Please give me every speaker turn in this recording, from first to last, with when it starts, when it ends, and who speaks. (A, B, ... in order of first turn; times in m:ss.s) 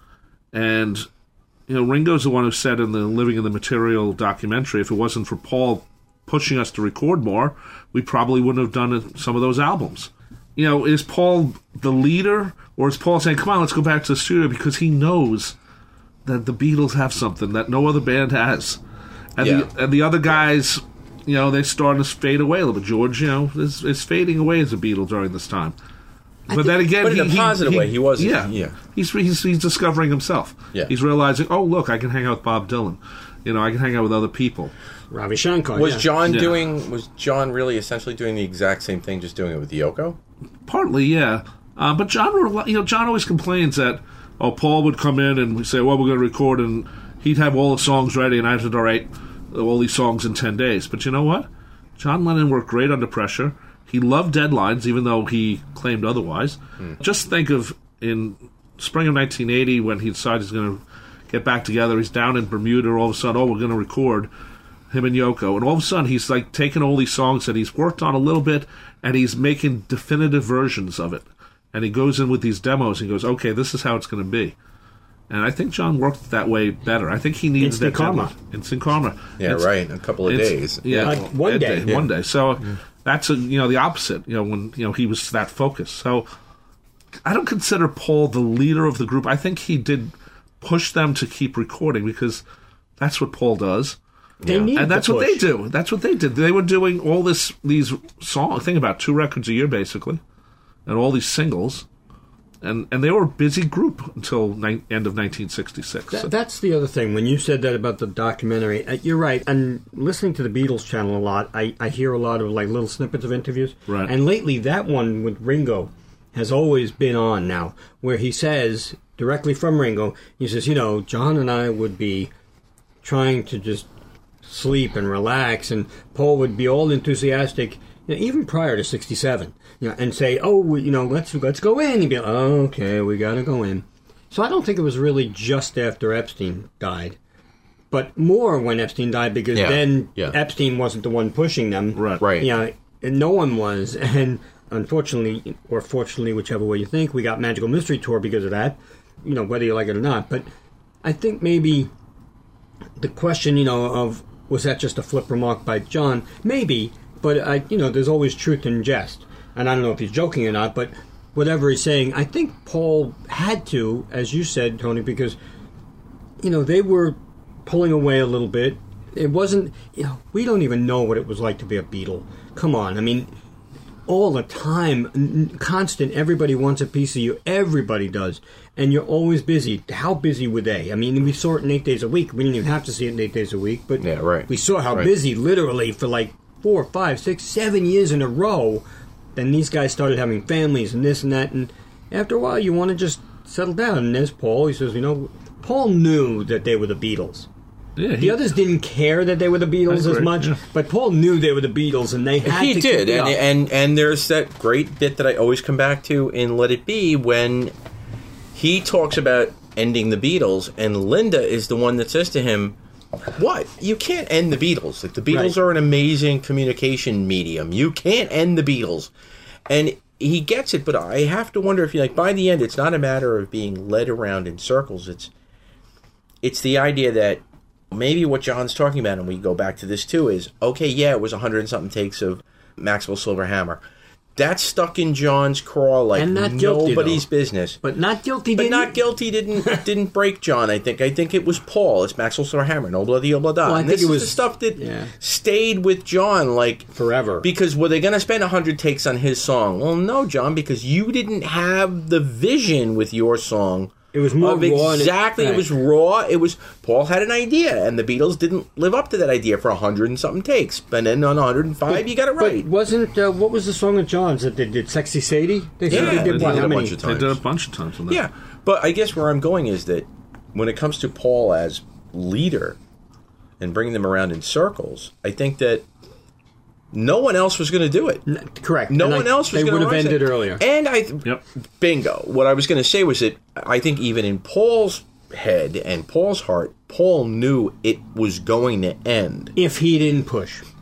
0:00.5-0:01.1 A
0:01.7-0:15.6 A
0:16.2-0:18.8 A
0:19.4-0:25.8 A
0:19.4-0:19.7 B
0:26.5-0:26.7 C
0:26.5-0:34.7 A
0:27.0-0:28.8 B
0:35.1-0:36.1 C
0:35.7-0:40.2 B
0:36.3-0:36.5 A
0:40.7-0:51.5 A
0:52.0-1:04.3 A
1:04.9-1:14.5 A
1:15.3-1:19.7 A
1:17.6-1:18.3 C
1:19.4-1:21.2 B
1:20.2-1:26.3 A
1:21.0-1:21.9 C
1:27.2-1:32.4 A
1:33.0-1:34.0 A
1:34.4-1:34.7 B
1:34.4-1:35.4 C
1:34.8-1:40.2 A
1:40.8-1:41.8 A
1:42.6-1:46.3 A
1:46.1-2:02.3 C
2:03.0-2:03.9 C
2:04.4-2:17.2 C
2:17.9-2:30.5 C
2:19.5-2:20.4 B
2:22.0-2:22.2 A
2:22.2-2:22.5 B
2:31.0-2:31.9 C
2:33.0-2:45.4 C
2:46.4-2:53.3 C
2:54.1-3:17.5 C
3:04.0-3:05.1 B
3:18.0-3:18.6 A
3:18.2-3:23.4 C
3:19.9-3:20.6 A
3:22.4-3:27.7 B
3:28.5-3:32.8 B
3:33.4-3:39.1 B
3:39.7-3:45.3 B
3:46.4-3:53.8 B
3:54.4-3:57.8 B
3:56.1-3:57.3 C
3:57.8-3:59.0 C
3:58.5-4:22.7 B
4:03.6-4:05.1 C
4:06.9-4:07.5 C
4:14.1-4:15.7 C
4:21.9-4:27.0 C
4:25.9-4:27.4 B
4:25.9-4:28.2 A
4:28.1-4:32.8 B
4:33.6-4:35.9 B
4:36.9-4:38.2 B
4:38.3-4:40.6 C
4:38.9-4:49.5 B
4:49.6-4:50.6 C